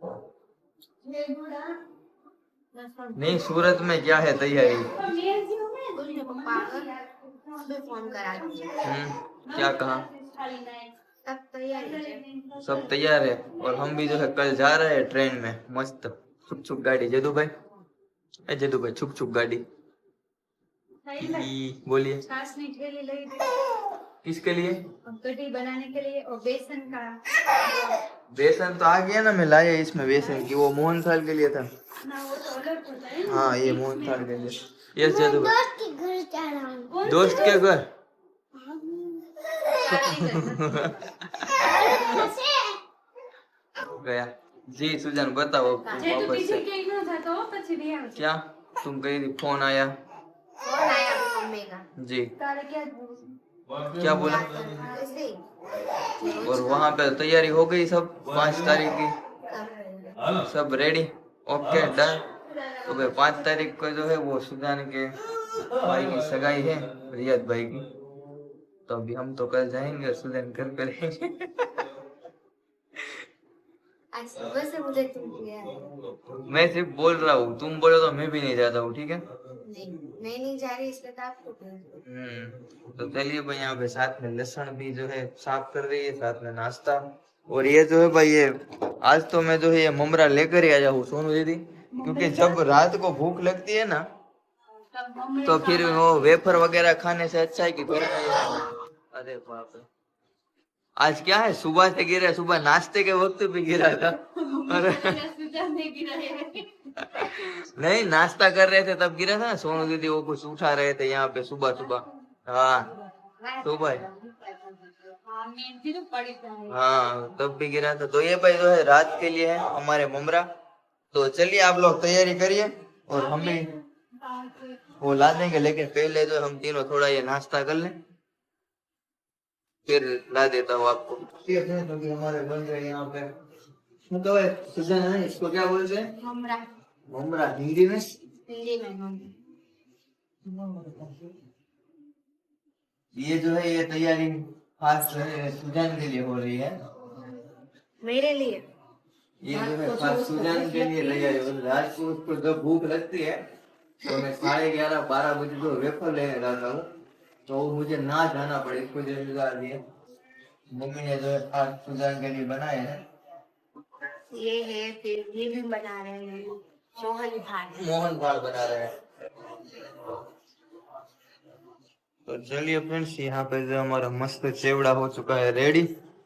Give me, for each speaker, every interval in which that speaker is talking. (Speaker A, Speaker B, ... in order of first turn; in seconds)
Speaker A: 1.0-1.8, 2.7-3.8, 4.5-8.8, 9.4-11.0, 11.7-14.6, 21.0-21.5, 22.2-23.9, 25.0-28.0, 30.1-30.5, 32.0-34.6, 36.9-37.6, 38.5-42.4, 45.9-48.2, 52.4-53.4, 91.9-92.8, 94.9-96.7, 104.3-107.5, 112.8-113.3, 115.1-116.8, 123.1-124.9
Speaker B: 3.1-5.0, 8.8-10.1, 12.6-17.5, 18.5-19.6, 21.2-22.2, 24.2-24.8, 28.3-31.7, 33.2-35.6, 37.0-37.9, 40.0-42.1, 43.9-46.6, 48.1-49.9, 52.0-52.3, 53.9-54.5, 56.4-59.1, 60.3-62.3, 62.8-67.9, 68.9-71.9, 76.5-79.2, 82.0-94.0, 95.4-99.9, 101.0-105.2, 107.0-112.9, 113.6-114.0, 116.7-120.5, 121.1-123.7, 125.0-128.0, 129.8-133.3, 134.1-136.1, 137.1-138.1, 140.4-141.2, 143.1-147.1, 149.4-153.4, 154.0-156.9, 157.4-159.8, 160.7-163.0, 167.7-168.9, 172.2-175.9
Speaker C: 5.9-6.9, 7.6-8.9, 11.2-12.2, 35.0-37.5, 39.5-40.5, 41.6-42.8, 50.6-51.8, 53.9-55.4, 56.0-57.0, 59.5-60.2, 74.1-75.9, 79.6-82.0, 113.4-115.0, 136.2-136.7, 138.5-139.3, 148.0-148.7, 149.5-151.4, 154.1-154.4, 164.3-167.8